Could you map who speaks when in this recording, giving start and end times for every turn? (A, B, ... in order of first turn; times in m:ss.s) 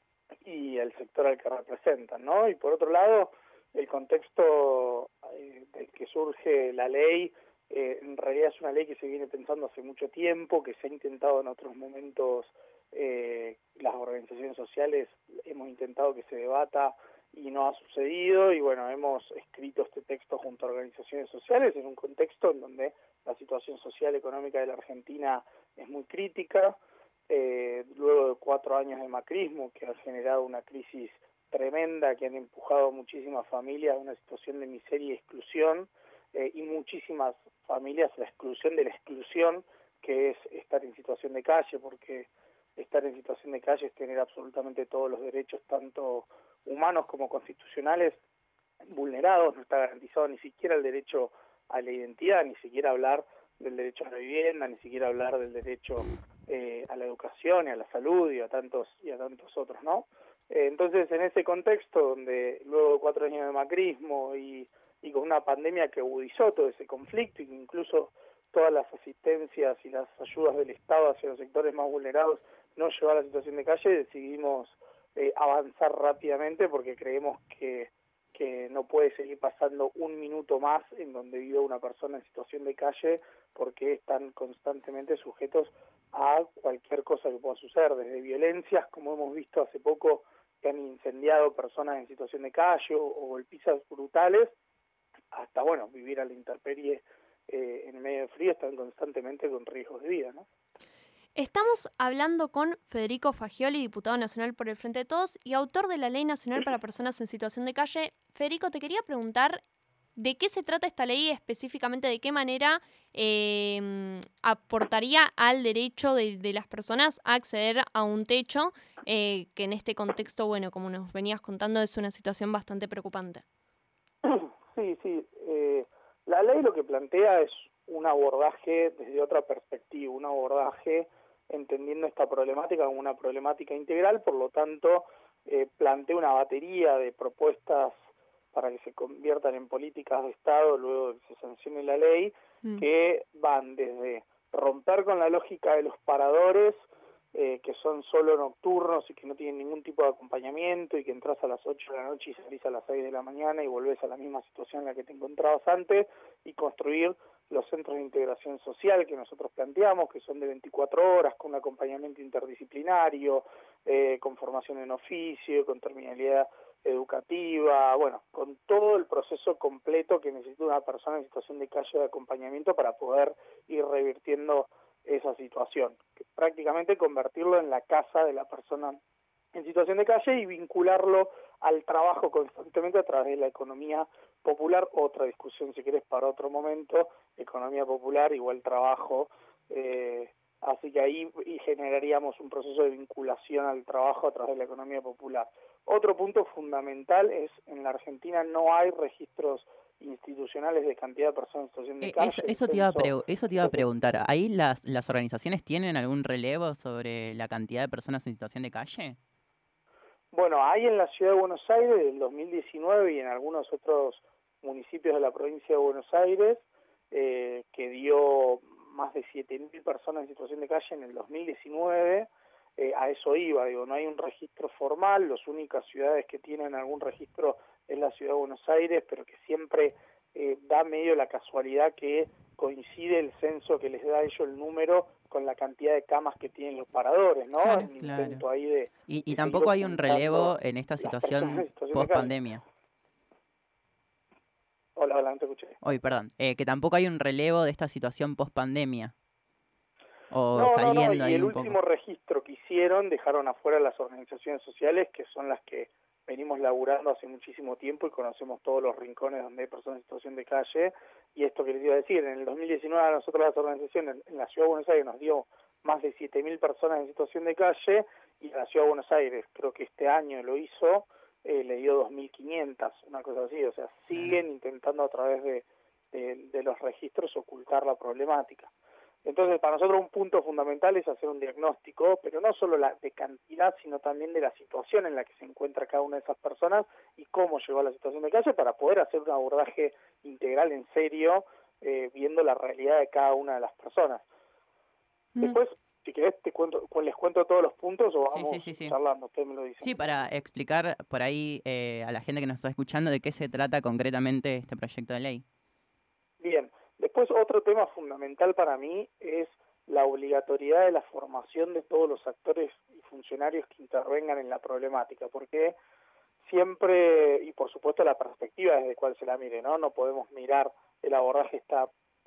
0:00.4-0:48.2 A
0:48.9-1:34.6 A
1:35.3-1:40.5 A
1:41.4-1:49.6 B
1:50.2-2:03.4 B
2:04.2-2:18.0 A
2:18.5-2:59.0 A
2:59.5-3:23.1 A
3:22.0-3:29.2 C
3:30.3-4:02.3 A
3:57.6-3:58.4 C
3:59.1-4:02.6 C
4:05.0-4:05.8 A
4:05.8-4:09.1 C
4:10.3-4:11.8 C
4:10.5-4:38.7 A
4:34.1-4:34.4 C
4:39.2-4:54.2 A
4:55.4-5:00.0 A
4:58.3-4:59.0 C
4:59.8-5:05.4 C
5:06.4-5:15.8 A
5:16.4-5:21.9 A